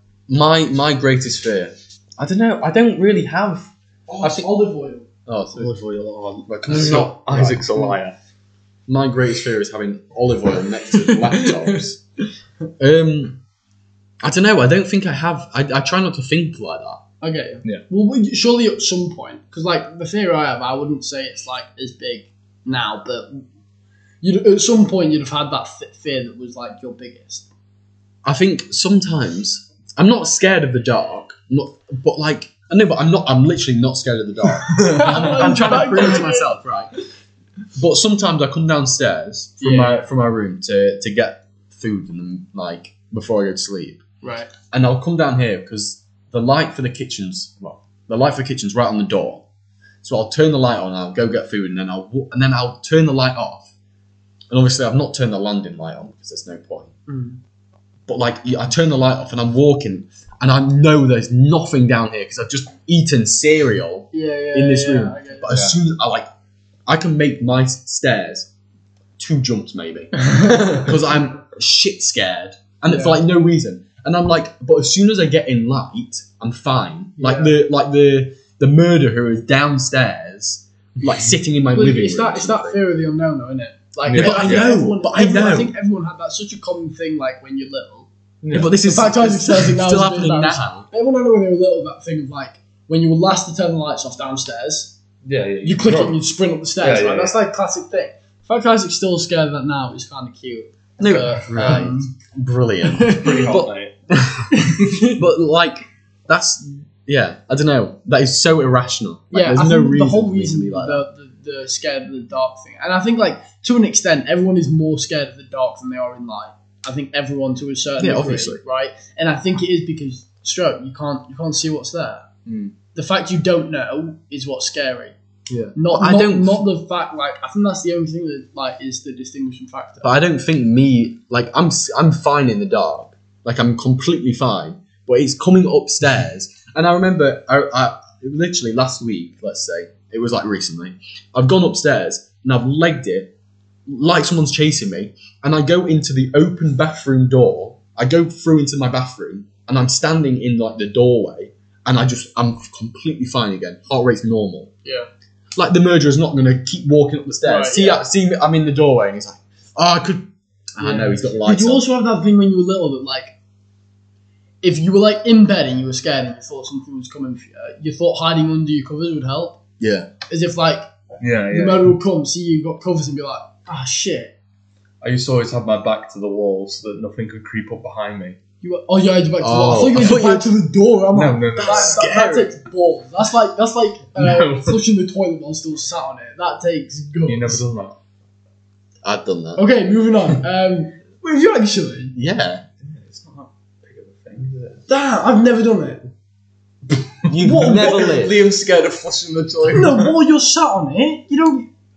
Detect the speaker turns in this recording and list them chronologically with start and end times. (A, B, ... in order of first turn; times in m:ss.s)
0:00.3-0:03.7 A
0:04.1-0:05.1 B
0:04.2-0:04.5 A
0:05.2-0:05.7 A
0:05.5-0:08.1 C
0:06.5-0:07.9 A
0:08.9-0:12.0 A
0:11.0-0:11.4 B
0:12.8-0:13.4 A
0:14.2-0:17.0 A
0:17.2-0:23.4 B
0:24.2-0:27.4 B
0:28.2-0:36.9 A
0:34.7-0:35.6 C
0:34.8-0:36.5 B
0:37.7-0:44.0 A
0:39.6-0:40.0 B
0:44.2-0:44.5 B
0:44.7-0:49.4 A
0:50.0-0:53.7 A
0:54.5-0:56.9 A
0:57.1-0:57.4 B
0:58.1-1:06.2 A
1:04.1-1:05.5 B
1:05.5-1:05.8 C
1:06.8-1:08.5 A
1:09.2-1:22.8 A
1:12.9-1:13.2 B
1:17.2-1:17.6 B
1:21.7-1:28.1 B
1:24.0-1:24.7 C
1:24.1-1:25.7 A
1:28.4-1:28.7 C
1:28.5-1:30.9 A
1:28.7-1:34.9 B
1:35.2-1:36.2 C
1:35.6-1:42.1 B
1:36.8-1:37.3 C
1:41.0-1:51.0 A
1:41.5-1:41.9 C
1:42.8-1:43.5 B
1:43.2-1:43.9 C
1:44.5-1:45.2 B
1:49.3-2:02.3 B
1:58.0-1:58.6 A
2:02.4-2:02.7 C
2:02.9-2:05.2 B
2:05.5-2:06.6 A
2:05.7-2:10.1 B
2:10.0-2:23.3 A
2:23.9-2:34.7 A
2:35.5-2:41.8 A
2:37.4-2:38.0 B
2:40.8-2:43.3 B
2:44.6-2:49.6 B
2:49.8-2:50.1 A
2:50.3-2:50.8 B
2:51.2-2:52.0 C
2:51.5-2:54.3 B
2:55.0-2:58.4 C
2:58.6-3:07.6 B
2:59.4-3:00.5 A
3:01.1-3:02.0 C
3:01.6-3:02.5 A
3:04.2-3:04.8 C
3:07.2-3:08.0 C
3:09.0-3:09.6 A
3:09.6-3:12.1 B
3:12.1-3:12.6 A
3:12.8-3:14.8 C
3:14.9-3:16.0 B
3:17.2-3:20.1 C
3:17.3-3:18.4 A
3:17.4-3:18.1 B
3:19.7-3:21.7 B